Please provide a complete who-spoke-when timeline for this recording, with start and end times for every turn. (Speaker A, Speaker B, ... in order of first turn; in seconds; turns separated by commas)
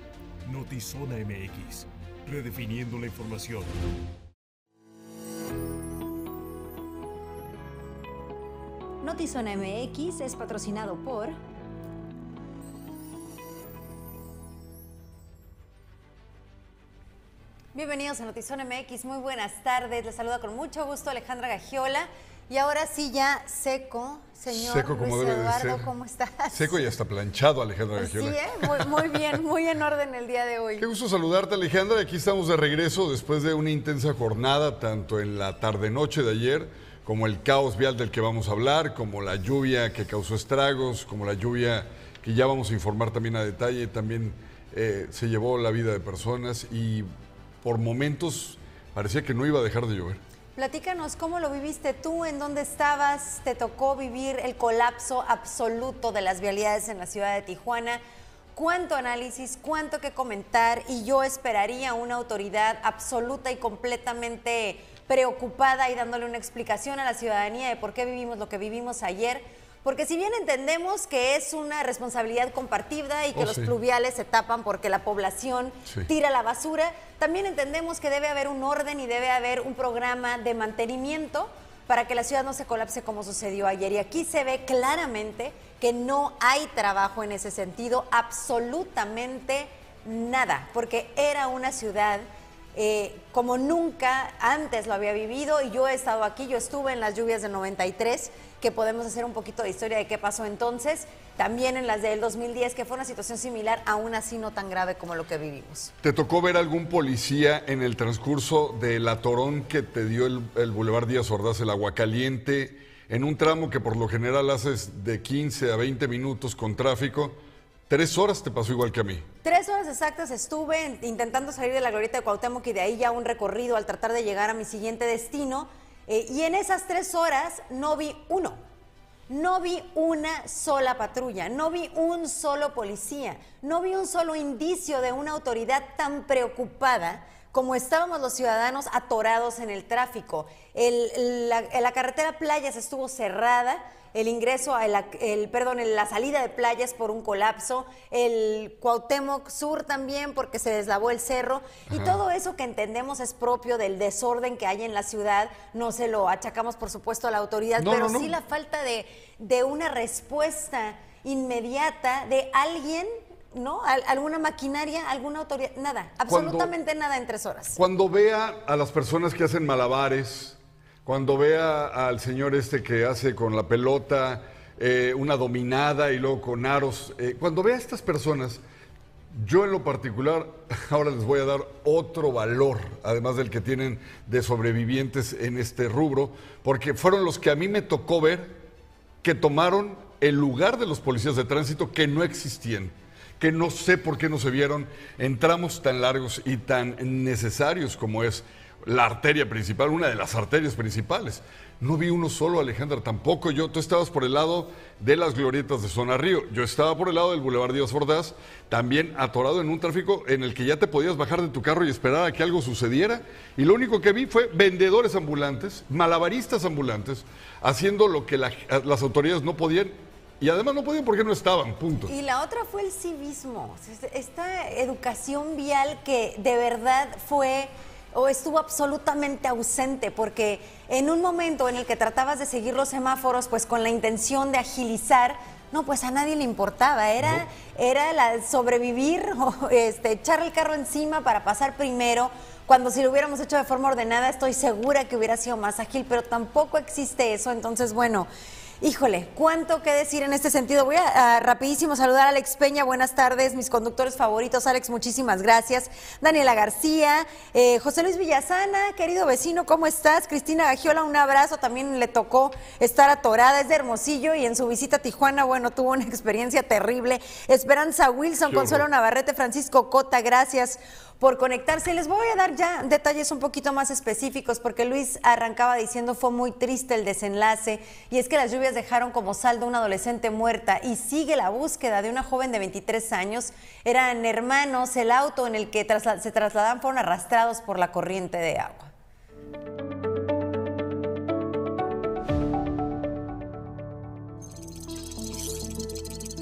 Speaker A: 0.5-3.7, Speaker B: 9.0-11.4, Speaker B: 17.7-26.9, Speaker C: 24.5-25.9, Speaker C: 26.5-29.4, Speaker B: 28.0-30.9, Speaker C: 30.8-47.1, Speaker C: 47.6-50.2, Speaker B: 50.6-58.0, Speaker B: 58.5-105.9, Speaker C: 73.3-73.7, Speaker C: 106.0-117.4, Speaker C: 117.9-119.3, Speaker B: 119.4-128.6, Speaker B: 129.3-167.8, Speaker C: 151.9-152.2, Speaker C: 157.8-158.3, Speaker C: 166.3-166.7, Speaker C: 167.8-178.6, Speaker C: 179.3-188.6, Speaker C: 189.2-222.1, Speaker B: 222.1-248.3, Speaker B: 248.8-288.9, Speaker C: 268.5-268.8